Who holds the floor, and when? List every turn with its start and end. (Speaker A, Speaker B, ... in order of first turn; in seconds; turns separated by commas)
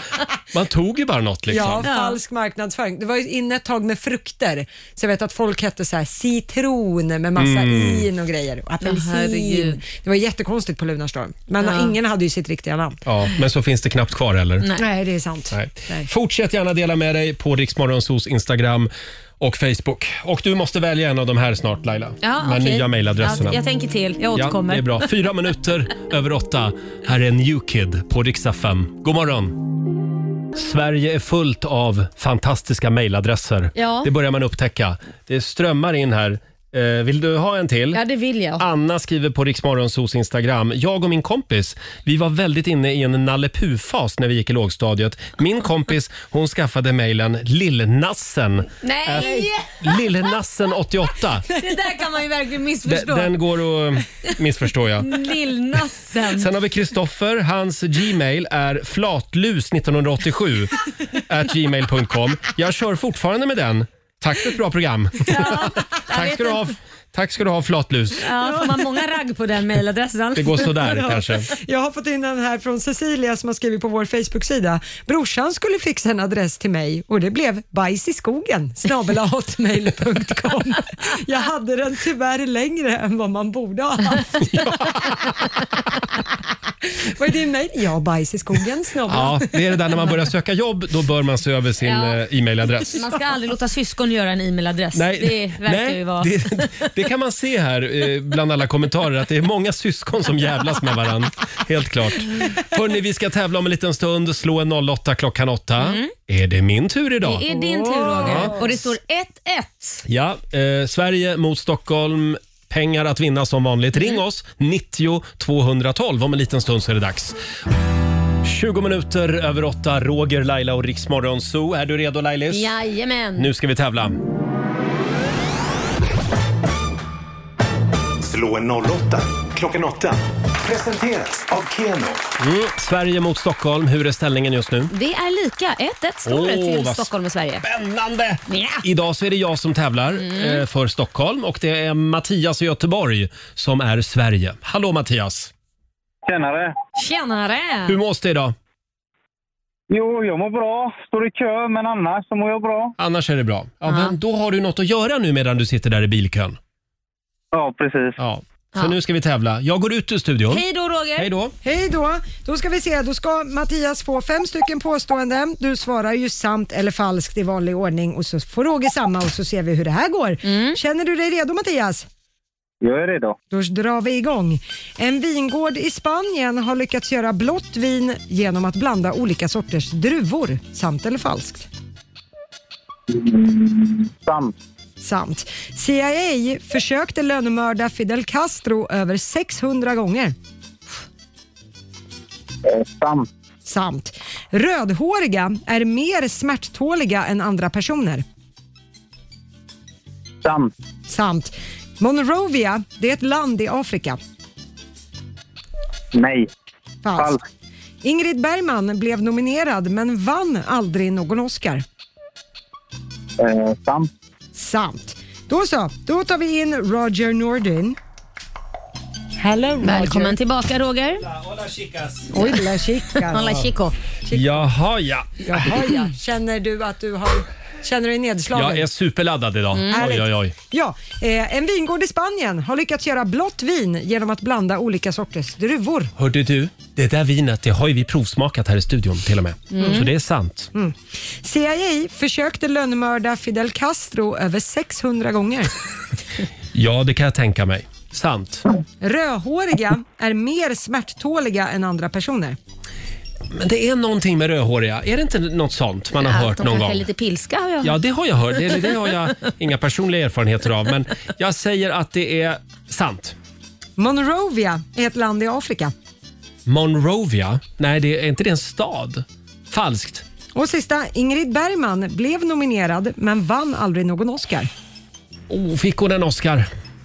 Speaker A: 0.5-1.9, Speaker B: 1.5-13.0, Speaker C: 1.8-2.2, Speaker A: 7.4-8.1, Speaker C: 8.8-9.8, Speaker C: 11.6-11.9, Speaker A: 13.1-14.7, Speaker B: 14.8-16.1, Speaker A: 15.5-23.6, Speaker C: 22.2-25.1, Speaker A: 24.3-29.6, Speaker A: 30.6-38.0, Speaker C: 33.8-34.1, Speaker C: 37.9-38.6, Speaker A: 38.6-51.5, Speaker C: 48.8-49.8, Speaker C: 51.5-53.3, Speaker A: 52.8-55.1, Speaker C: 55.0-56.5, Speaker A: 56.3-60.7, Speaker A: 61.2-68.2, Speaker C: 65.3-66.6, Speaker C: 68.2-70.8, Speaker B: 68.4-68.8, Speaker A: 70.3-71.5, Speaker B: 70.8-84.9, Speaker A: 84.4-85.0, Speaker B: 86.8-89.5, Speaker A: 89.1-93.0, Speaker C: 91.8-92.2, Speaker C: 92.9-96.9, Speaker A: 94.9-107.5, Speaker C: 105.8-106.1, Speaker C: 107.2-110.0, Speaker B: 107.5-108.5, Speaker A: 108.2-108.7, Speaker A: 110.0-117.4, Speaker A: 118.4-122.7, Speaker C: 122.5-123.5, Speaker A: 123.4-124.2, Speaker D: 128.2-132.2, Speaker A: 132.4-134.9, Speaker C: 134.9-137.6, Speaker A: 136.2-137.1, Speaker A: 137.6-145.5, Speaker C: 138.5-138.8, Speaker C: 140.2-140.6, Speaker E: 146.2-146.7, Speaker C: 146.9-148.0, Speaker A: 147.9-148.6, Speaker E: 149.9-152.9, Speaker A: 153.0-156.6, Speaker C: 153.9-154.1, Speaker E: 157.5-158.2, Speaker A: 158.2-160.6, Speaker C: 160.5-161.3, Speaker A: 161.2-161.6, Speaker B: 161.6-172.1, Speaker C: 170.4-170.8, Speaker E: 172.8-173.4, Speaker B: 173.5-181.7, Speaker E: 183.1-184.5, Speaker B: 185.0-190.3, Speaker E: 192.6-193.3, Speaker B: 193.7-198.2, Speaker E: 200.4-200.7, Speaker B: 201.1-204.2, Speaker E: 206.1-206.5, Speaker B: 207.1-207.4, Speaker B: 208.0-211.8, Speaker E: 213.4-214.1, Speaker B: 214.6-218.0, Speaker B: 219.4-220.3, Speaker C: 219.8-221.2, Speaker A: 221.2-222.3, Speaker B: 222.3-223.7, Speaker C: 223.1-223.9, Speaker B: 224.2-224.7, Speaker A: 224.3-225.8, Speaker B: 225.4-228.9, Speaker A: 228.5-230.5, Speaker C: 229.7-230.0, Speaker B: 229.9-236.1, Speaker A: 236.2-240.7, Speaker C: 239.7-240.1, Speaker B: 240.7-245.8, Speaker A: 246.7-248.7, Speaker B: 249.0-252.6, Speaker A: 253.5-257.1, Speaker C: 256.2-258.0, Speaker A: 257.8-263.4, Speaker B: 264.0-265.9, Speaker A: 266.6-270.2, Speaker B: 270.5-274.7, Speaker A: 275.5-276.7